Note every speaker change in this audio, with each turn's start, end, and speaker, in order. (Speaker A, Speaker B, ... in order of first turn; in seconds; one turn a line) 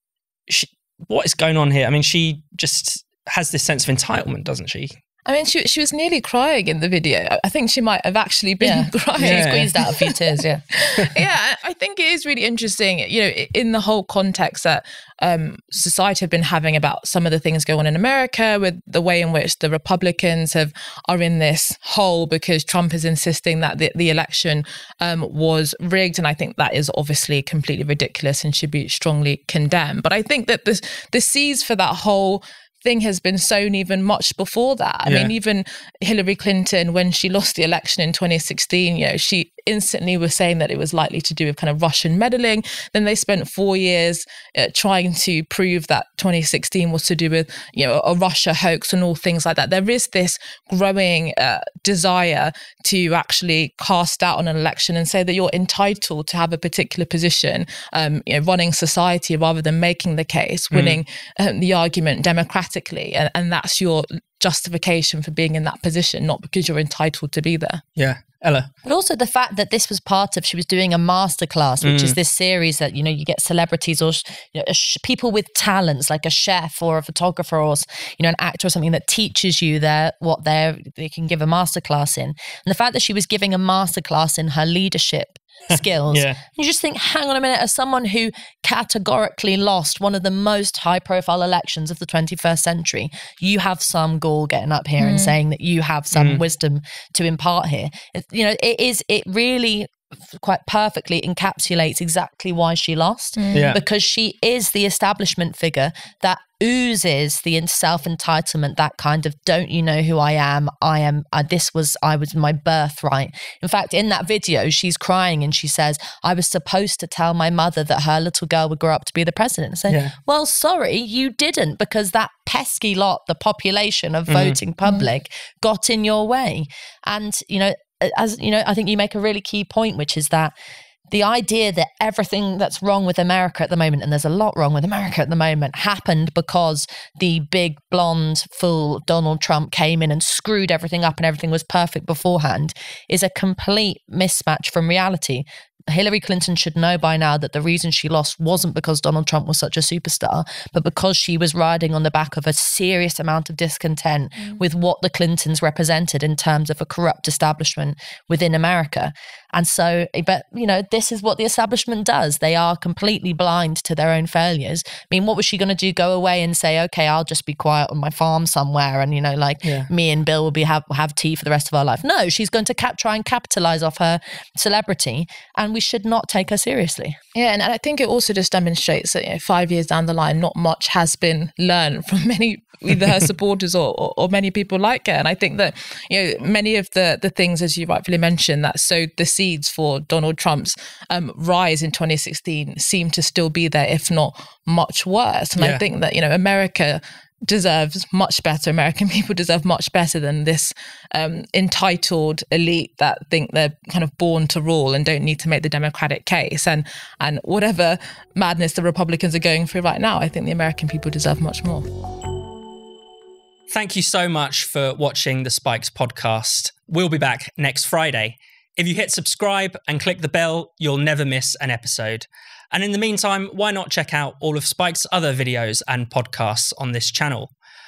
Speaker A: 0.5-5.0
Speaker B: 5.2-67.8
Speaker C: 8.6-10.6
Speaker A: 9.2-9.7
Speaker A: 35.0-35.3
Speaker A: 60.7-61.0
Speaker A: 68.0-68.7
Speaker C: 68.8-130.5
Speaker A: 71.8-72.2
Speaker A: 85.7-86.4
Speaker B: 95.0-95.3
Speaker A: 96.1-96.4
Speaker B: 103.4-103.8
Speaker A: 103.5-103.8
Speaker A: 119.9-120.1
Speaker A: 124.3-124.6
Speaker C: 131.1-177.2
Speaker A: 169.6-169.9
Speaker B: 177.3-211.8
Speaker A: 195.6-195.8
Speaker A: 213.7-227.5